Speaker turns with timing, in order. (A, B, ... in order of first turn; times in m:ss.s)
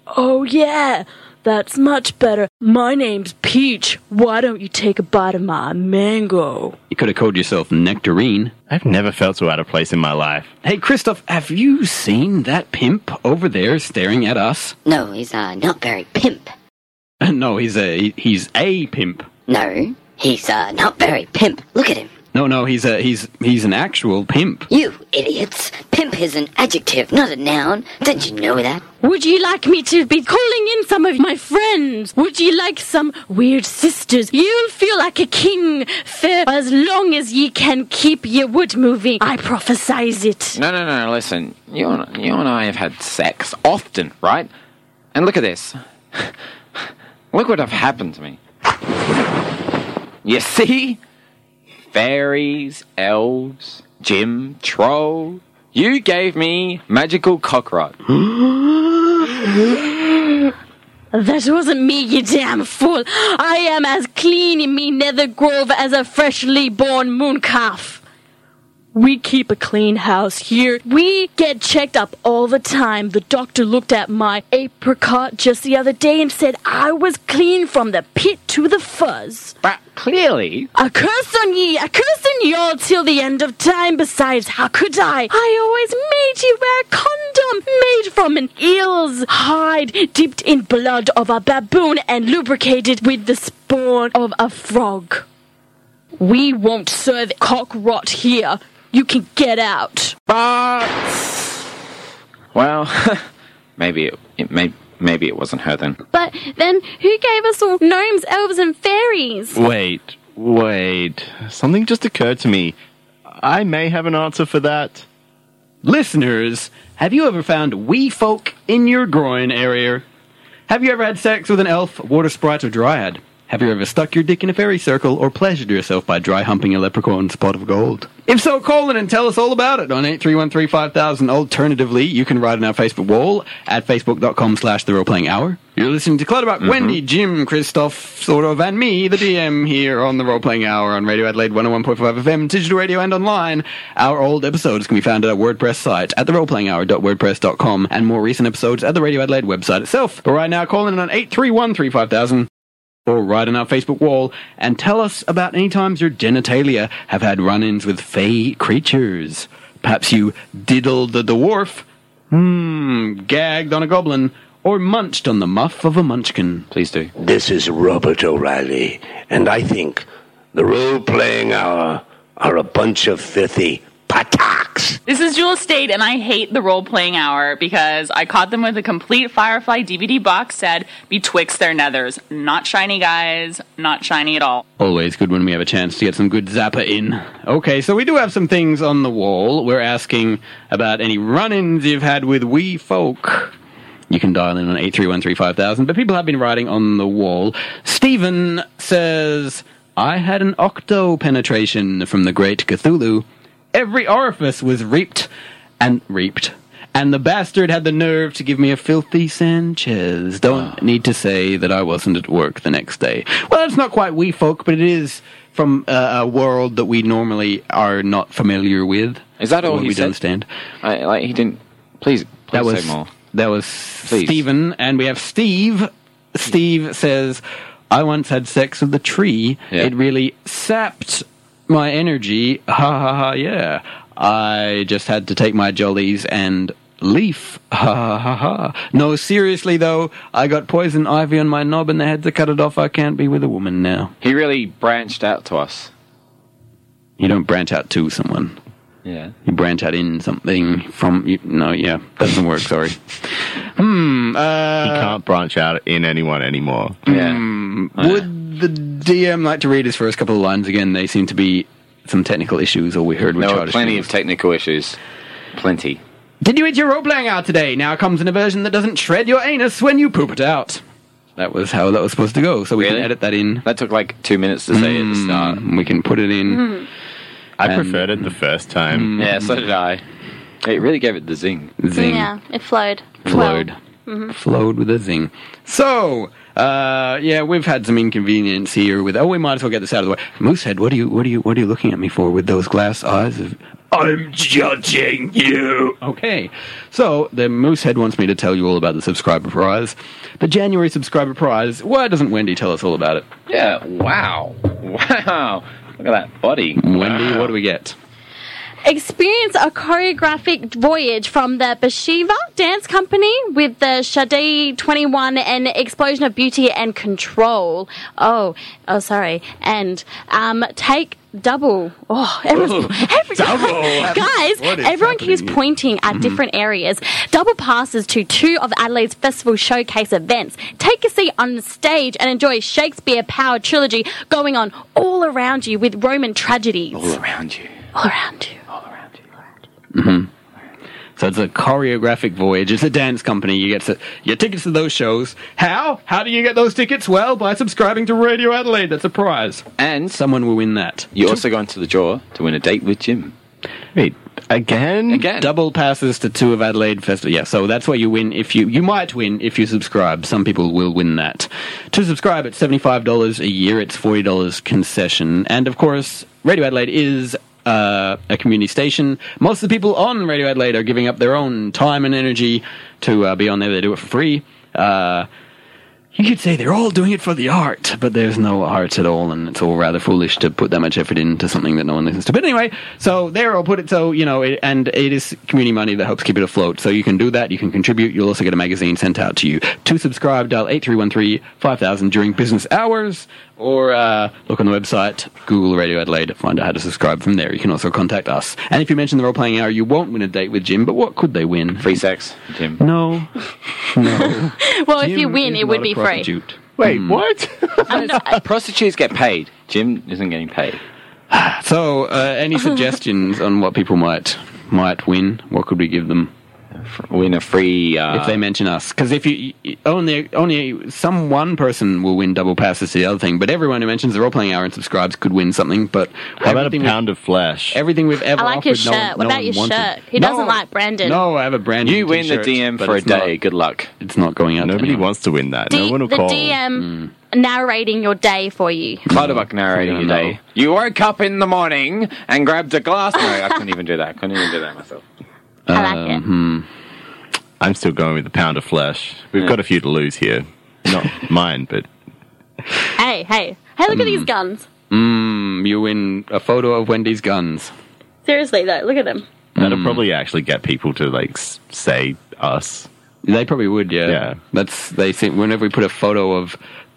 0:00.1-0:06.8 A
0:06.9-0:08.5 B
0:08.7-0:10.5 C
0:10.6-0:14.8 B
0:14.8-0:16.5 D
0:17.2-0:19.3 B
0:19.5-0:22.1 D
0:22.3-0:24.7 B
0:24.7-0:28.8 D
0:29.0-0:40.6 A
0:40.6-0:44.5 E
0:45.1-0:48.4 E
0:50.2-0:51.0 E
0:51.9-0:58.0 E
0:58.3-0:58.6 B
1:01.1-1:08.0 A
1:08.9-1:19.6 A
1:19.6-1:20.7 E
1:20.8-1:35.3 A
1:36.2-1:40.2 A
1:40.3-1:41.6 E
1:42.5-1:43.3 E
1:43.8-1:46.0 E
1:46.1-1:49.6 A
1:49.6-1:52.8 C
1:53.3-1:55.1 C
1:55.8-2:00.0 B
2:00.7-2:32.5 B
2:16.6-2:17.0 E
2:33.1-2:46.7 B
2:46.7-2:47.1 E
2:47.2-2:55.0 F
2:55.1-3:04.6 G
3:04.8-3:13.5 B
3:14.1-3:25.3 B
3:25.8-3:40.5 B
3:39.4-3:40.2 E
3:40.8-3:43.1 E
3:42.5-4:04.1 B
3:44.1-3:44.4 E
4:04.2-4:05.9 E
4:07.2-4:08.6 B
4:09.0-4:09.3 E
4:09.4-4:13.2 B
4:13.8-4:15.2 B
4:14.8-4:17.0 C
4:17.1-4:17.4 E
4:17.1-4:24.1 B
4:18.0-4:18.3 E
4:23.4-4:25.0 E
4:25.6-4:26.0 E
4:26.4-4:30.8 B
4:31.4-4:33.6 B
4:32.8-4:33.1 E
4:33.6-4:35.7 E
4:34.7-4:36.8 B
4:36.6-4:36.8 A
4:37.6-4:39.2 C
4:37.6-4:38.3 B
4:38.9-4:39.5 B
4:39.2-4:40.0 E
4:40.6-4:41.8 E
4:41.8-4:42.3 B
4:41.9-4:44.3 A
4:43.3-4:43.8 B
4:44.3-5:03.3 B
5:03.5-5:07.5 E
5:06.8-5:08.0 B
5:08.8-5:37.2 A
5:22.6-5:26.4 B
5:36.9-5:37.7 E
5:38.0-5:38.6 A
5:38.8-5:39.0 E
5:39.9-5:40.3 B
5:41.2-5:51.4 B
5:49.8-5:50.2 E
5:51.2-5:53.3 E
5:54.0-5:55.2 C
5:55.1-5:55.5 E
5:55.2-6:15.3 B
6:16.2-6:41.9 B
6:41.8-6:42.8 E
6:42.8-6:43.3 B
6:43.9-6:47.2 B
6:44.6-6:46.3 A
6:46.8-6:48.1 C
6:47.9-6:48.4 A
6:47.9-6:50.8 E
6:51.3-6:56.3 B
6:56.8-6:58.4 E
6:58.1-7:07.0 B
7:06.4-7:07.8 C
7:07.7-7:13.3 B
7:08.4-7:11.2 A
7:11.8-7:13.9 E
7:14.0-7:15.1 B
7:14.6-7:16.6 C
7:15.7-7:19.1 A
7:16.8-7:17.1 B
7:19.1-7:20.4 B
7:19.1-7:25.0 E
7:25.7-7:26.7 B
7:25.7-7:26.2 A
7:27.6-7:31.9 C
7:33.0-7:34.7 A
7:33.9-7:34.3 B
7:34.9-7:37.7 B
7:38.3-7:39.3 A
7:39.6-7:40.0 B
7:39.6-7:42.9 C
7:43.2-7:46.6 B
7:44.1-7:44.4 C